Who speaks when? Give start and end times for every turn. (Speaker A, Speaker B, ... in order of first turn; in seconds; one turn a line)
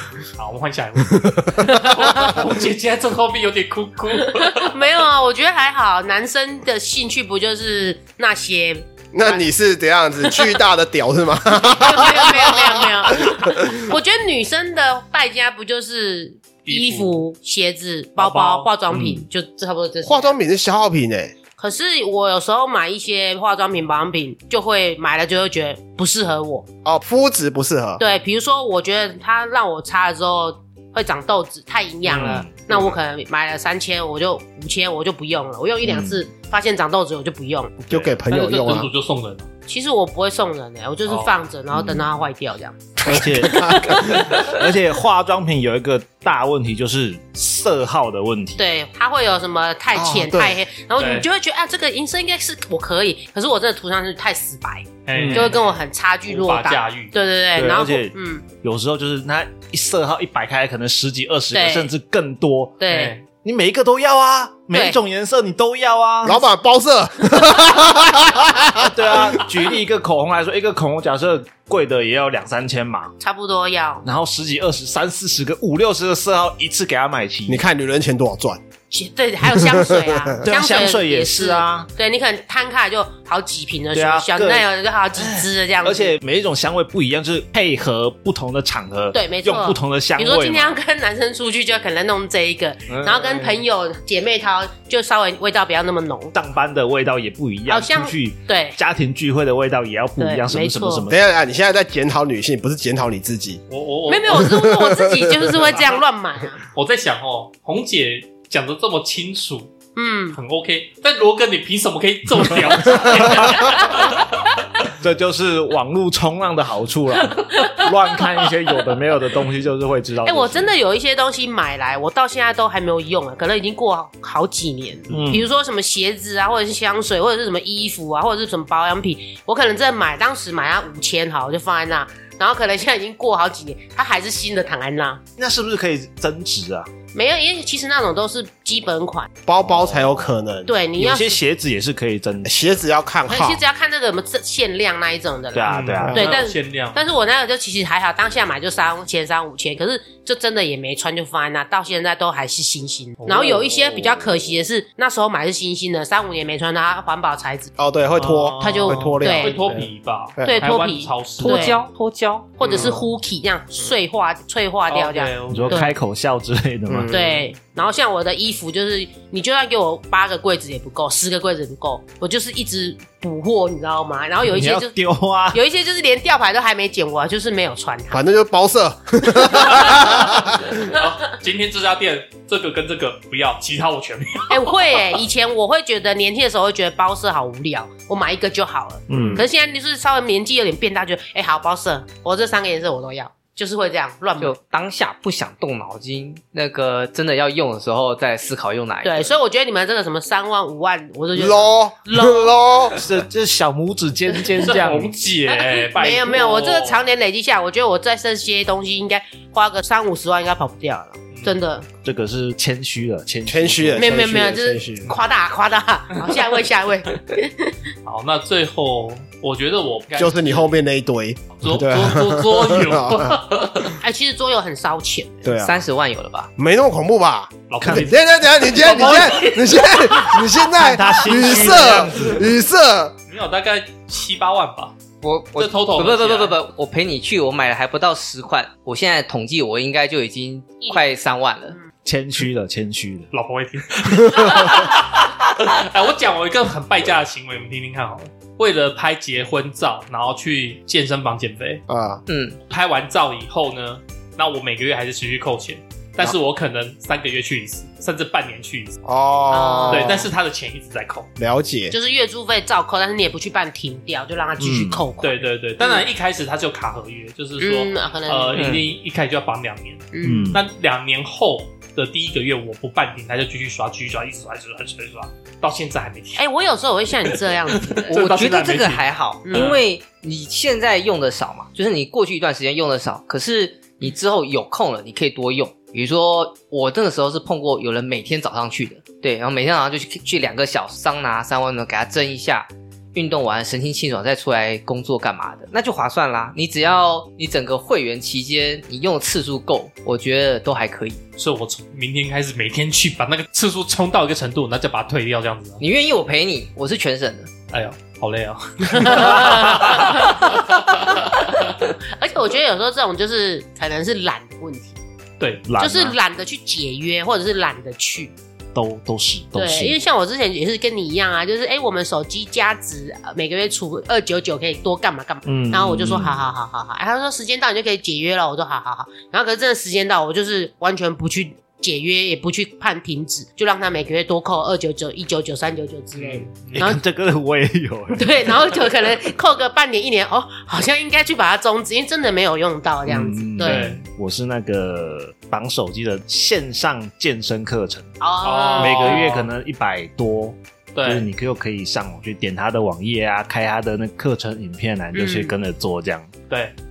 Speaker A: 0.3-4.7
Speaker B: 1.1-2.2
Speaker C: 1.6-2.4
Speaker C: 4.2-9.4
Speaker B: 9.1-13.8
Speaker C: 10.3-10.5
Speaker C: 11.6-20.4
Speaker A: 16.6-17.2
Speaker A: 18.2-18.7
Speaker D: 18.9-19.2
Speaker B: 20.0-21.3
Speaker C: 21.6-26.7
Speaker B: 26.8-28.0
Speaker C: 28.0-37.8
Speaker D: 32.0-32.7
Speaker D: 35.9-36.2
Speaker B: 37.8-38.9
Speaker D: 37.9-38.2
Speaker A: 38.3-39.5
Speaker C: 39.7-44.6
Speaker A: 41.0-41.3
Speaker D: 41.7-42.0
Speaker D: 43.1-48.6
Speaker B: 43.1-44.3
Speaker C: 48.6-58.5
Speaker B: 49.9-50.5
Speaker A: 51.0-51.3
Speaker A: 55.0-57.1
Speaker D: 55.1-55.5
Speaker D: 57.5-66.4
Speaker C: 61.5-61.9
Speaker C: 62.8-63.2
Speaker A: 62.9-63.2
Speaker C: 64.7-65.0
Speaker B: 66.2-69.4
Speaker C: 67.3-67.7
Speaker D: 68.7-73.1
Speaker C: 73.2-74.1
Speaker D: 74.0-77.6
Speaker B: 77.5-78.6
Speaker C: 78.9-86.2
Speaker B: 79.4-80.4
Speaker D: 80.4-81.9
Speaker D: 83.9-90.8
Speaker C: 89.1-96.3
Speaker D: 92.9-93.6
Speaker D: 96.3-101.2
Speaker C: 97.7-98.8
Speaker C: 100.2-101.1
Speaker B: 101.1-103.6
Speaker A: 103.7-104.7
Speaker C: 104.1-106.6
Speaker B: 104.3-105.7
Speaker A: 106.7-109.7
Speaker C: 109.9-110.4
Speaker A: 110.3-114.5
Speaker D: 113.1-113.6
Speaker C: 113.3-114.0
Speaker D: 115.0-120.7
Speaker C: 117.5-117.9
Speaker C: 120.2-135.2
Speaker D: 125.1-125.5
Speaker D: 135.4-136.9
Speaker C: 137.1-139.3
Speaker B: 139.4-140.7
Speaker D: 139.6-140.2
Speaker C: 140.7-141.4
Speaker D: 140.9-142.8
Speaker B: 142.4-143.6
Speaker C: 143.3-157.7
Speaker D: 145.5-146.3
Speaker A: 145.7-147.0
Speaker B: 146.0-146.3
Speaker A: 153.2-153.6
Speaker B: 157.8-159.6
Speaker A: 158.2-161.8
Speaker C: 158.6-159.6
Speaker B: 160.4-160.7
Speaker C: 160.4-161.8
Speaker E: 161.4-162.6
Speaker C: 162.6-165.9
Speaker A: 162.6-163.0
Speaker B: 162.6-163.0
Speaker A: 164.9-165.8
Speaker D: 165.5-167.2
Speaker B: 166.9-167.2
Speaker C: 167.1-174.9
Speaker D: 174.4-175.6
Speaker C: 175.5-178.2
Speaker B: 178.1-180.8
Speaker C: 179.4-180.1
Speaker A: 179.9-185.2
Speaker C: 184.5-194.5
Speaker D: 189.1-189.4
Speaker B: 189.1-189.4
Speaker E: 194.4-199.3
Speaker C: 199.0-202.5
Speaker B: 201.3-203.0
Speaker D: 202.9-205.1
Speaker A: 204.6-207.0
Speaker C: 205.5-211.9
Speaker A: 211.3-211.6
Speaker D: 212.0-214.2
Speaker B: 213.4-215.1
Speaker C: 214.0-217.8
Speaker A: 218.0-220.7
Speaker B: 220.2-223.4
Speaker A: 221.6-224.0
Speaker C: 224.0-225.5
Speaker B: 225.4-225.8
Speaker E: 225.6-226.5
Speaker B: 226.6-233.2
Speaker A: 227.7-230.4
Speaker D: 227.8-228.1
Speaker D: 230.7-232.4
Speaker A: 233.3-234.9
Speaker E: 235.2-241.8
Speaker A: 235.6-236.5
Speaker D: 242.0-243.3
Speaker A: 243.3-251.8
Speaker D: 244.2-244.9
Speaker B: 251.9-252.2
Speaker E: 252.3-252.6
Speaker A: 252.7-258.9
Speaker B: 259.0-260.3
Speaker C: 259.5-260.3
Speaker A: 259.9-261.3
Speaker B: 261.4-261.9
Speaker C: 261.9-266.1
Speaker D: 264.6-265.1
Speaker A: 265.2-276.4
Speaker C: 267.6-268.7
Speaker E: 268.5-268.9
Speaker C: 270.1-270.6
Speaker D: 270.2-270.6
Speaker C: 276.4-278.1
Speaker A: 277.3-279.8
Speaker E: 278.1-301.2
Speaker C: 279.4-279.8
Speaker A: 301.4-305.8
Speaker E: 305.8-307.5
Speaker A: 307.7-311.8
Speaker C: 308.9-315.0
Speaker A: 315.4-315.6
Speaker D: 315.6-316.2
Speaker C: 315.8-318.3
Speaker D: 318.7-320.0
Speaker C: 319.6-337.0
Speaker D: 325.4-326.4
Speaker A: 336.1-336.8
Speaker D: 336.7-338.5
Speaker C: 338.1-343.8
Speaker D: 343.1-348.1
Speaker A: 343.6-344.0
Speaker C: 348.2-349.3
Speaker A: 348.4-349.5
Speaker D: 348.8-356.3
Speaker A: 350.9-351.3
Speaker C: 355.1-355.5
Speaker A: 356.5-356.7